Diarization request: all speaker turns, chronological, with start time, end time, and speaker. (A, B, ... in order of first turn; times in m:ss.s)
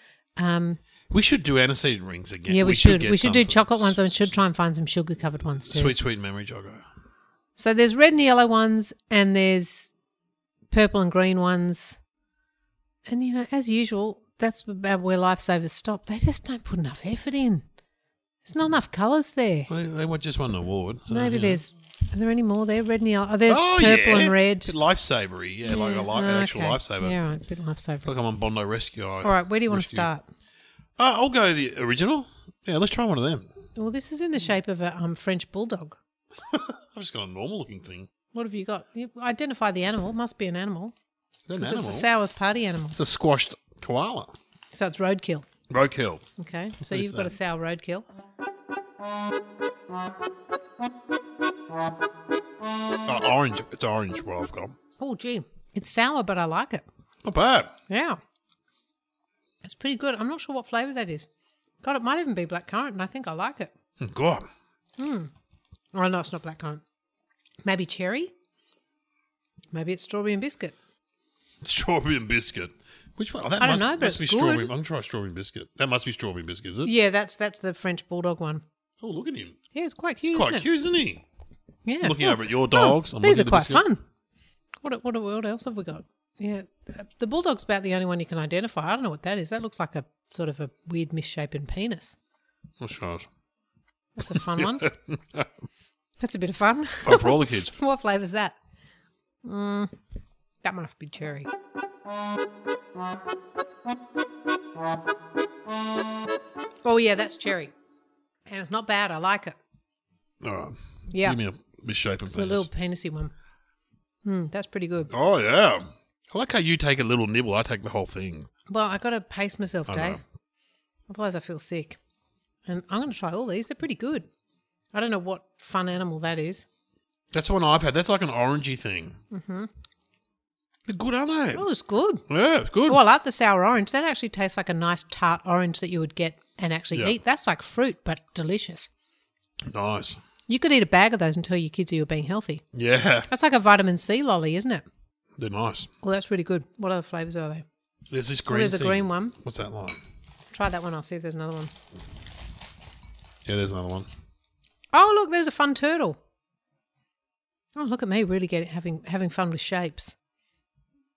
0:00.4-0:00.8 A
0:01.1-0:04.3 B
0:02.5-0:06.0 A
0:05.7-0:06.8 B
0:07.6-0:09.9 A
0:10.7-0:12.0 A
0:13.1-0:17.6 A
0:18.4-0:19.7 A
0:19.7-0:21.6 B
0:21.1-0:24.7 A
0:23.5-0:27.2 B
0:25.7-0:28.1 A
0:28.0-0:30.1 B
0:29.2-0:30.2 A
0:31.0-0:33.5 B
0:33.8-0:36.0 A
0:36.5-0:38.1 B
0:38.3-0:40.9 A
0:41.5-0:42.1 B
0:41.6-0:43.0 A
0:42.9-0:44.4 B
0:44.7-0:45.5 A
0:45.7-0:46.2 B
0:46.4-0:48.1 A
0:46.8-0:47.3 B
0:53.1-0:54.8 B
0:55.0-0:56.8 A
0:57.2-0:57.7 B
0:57.9-0:58.2 A
0:59.6-1:01.3 A
1:01.8-1:03.7 A
1:04.0-1:04.5 B
1:05.0-1:05.3 A
1:05.9-1:06.8 A
1:07.6-1:08.3 A
1:09.7-1:10.8 A
1:11.6-1:16.9 B
1:13.6-1:14.7 A
1:16.8-1:18.6 A
1:19.0-1:19.6 B
1:19.7-1:20.7 A
1:20.3-1:21.2 B
1:21.8-1:24.0 A
1:22.0-1:23.8 B
1:24.8-1:32.2 A
1:32.8-1:33.3 B
1:34.2-1:34.9 A
1:34.3-1:35.5 B
1:36.2-1:38.6 A
1:37.0-1:37.7 B
1:39.4-1:39.9 A
1:40.6-1:41.5 A
1:46.8-1:47.7 A
1:48.5-1:49.6 A
1:50.4-1:52.7 B
1:51.1-1:51.4 A
1:52.3-1:53.3 A
1:54.2-1:55.1 A
1:55.1-1:58.5 B
1:58.7-2:00.2 A
1:59.9-2:00.2 B
2:01.1-2:02.0 A
2:02.7-2:04.3 A
2:04.9-2:06.6 A
2:07.3-2:09.2 B
2:09.3-2:09.7 A
2:10.9-2:11.7 B
2:11.6-2:12.2 A
2:12.3-2:13.0 B
2:12.9-2:18.9 A
2:19.7-2:20.2 B
2:20.5-2:22.6 A
2:22.7-2:23.3 B
2:23.3-2:24.8 A
2:25.4-2:25.9 B
2:26.0-2:27.6 A
2:28.1-2:30.0 B
2:28.5-2:29.4 A
2:30.5-2:31.7 A
2:33.5-2:34.1 B
2:34.9-2:36.2 A
2:37.8-2:40.2 A